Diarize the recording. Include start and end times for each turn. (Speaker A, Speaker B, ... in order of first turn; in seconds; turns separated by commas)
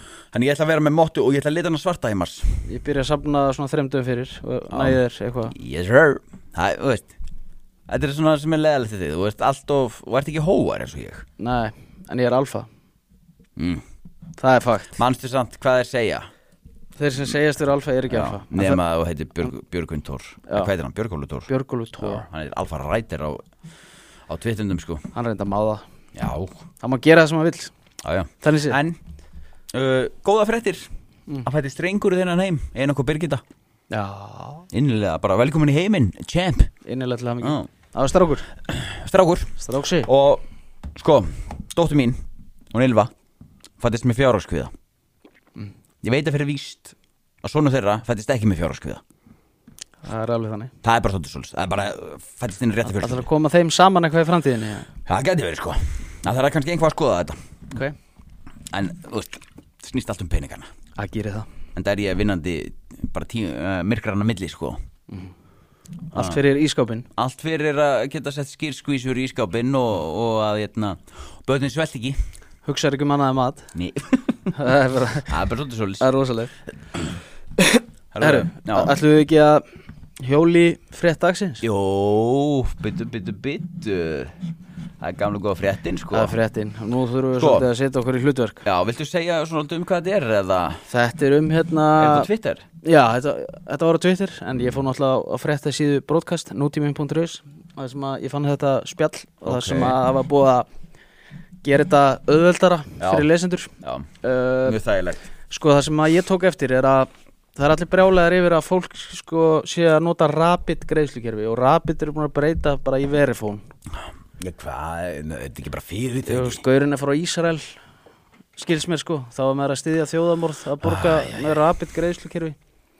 Speaker A: 0.3-2.6, Speaker B: 2.6-5.5, Speaker A: 4.7-5.0, Speaker A: 5.5-7.1, Speaker A: 7.9-11.2, Speaker B: 11.4-12.7, Speaker A: 13.6-13.8, Speaker B: 14.4-14.9, Speaker A: 14.9-16.3, Speaker B: 17.0-18.8, Speaker A: 18.1-23.4, Speaker B: 21.5-22.2, Speaker A: 24.3-25.1, Speaker B: 25.1-25.8, Speaker A: 26.1-26.6, Speaker B: 26.8-27.7, Speaker A: 28.0-29.0, Speaker B: 28.4-28.8, Speaker A: 29.7-30.9, Speaker A: 31.4-33.4, Speaker B: 33.9-34.6, Speaker A: 34.7-36.7, Speaker B: 36.9-38.5, Speaker A: 37.4-37.7, Speaker A: 38.6-42.2, Speaker B: 39.6-40.1, Speaker A: 42.7-43.1, Speaker A: 43.8-44.7, Speaker A: 46.0-49.0, Speaker B: 50.0-50.7, Speaker A: 50.8-53.2, Speaker B: 52.9-54.9, Speaker A: 55.1-57.4, Speaker A: 58.7-60.7, Speaker B: 61.0-61.5, Speaker A: 61.7-64.8, Speaker B: 66.1-67.1, Speaker A: 66.1-66.4, Speaker A: 67.1-72.2, Speaker B: 72.7-73.7, Speaker A: 73.7-74.6, Speaker B: 74.5-75.3, Speaker A: 75.3-76.1, Speaker B: 76.0-76.5, Speaker B: 77.6-79.6, Speaker A: 78.1-78.9, Speaker B: 80.2-81.6, Speaker A: 81.6-84.4, Speaker A: 85.0-86.3, Speaker B: 86.1-88.6, Speaker A: 87.4-87.7, Speaker A: 88.6-90.8, Speaker B: 90.9-92.3, Speaker A: 92.0-92.6, Speaker B: 92.8-100.7, Speaker A: 99.4-100.0, Speaker B: 101.6-104.8, Speaker A: 103.0-103.3, Speaker A: 103.8-104.1, Speaker A: 104.6-105.2, Speaker B: 105.5-113.6, Speaker A: 114.4-116.6, Speaker B: 116.2-117.8, Speaker B: 118.6-122.6, Speaker A: 120.8-121.6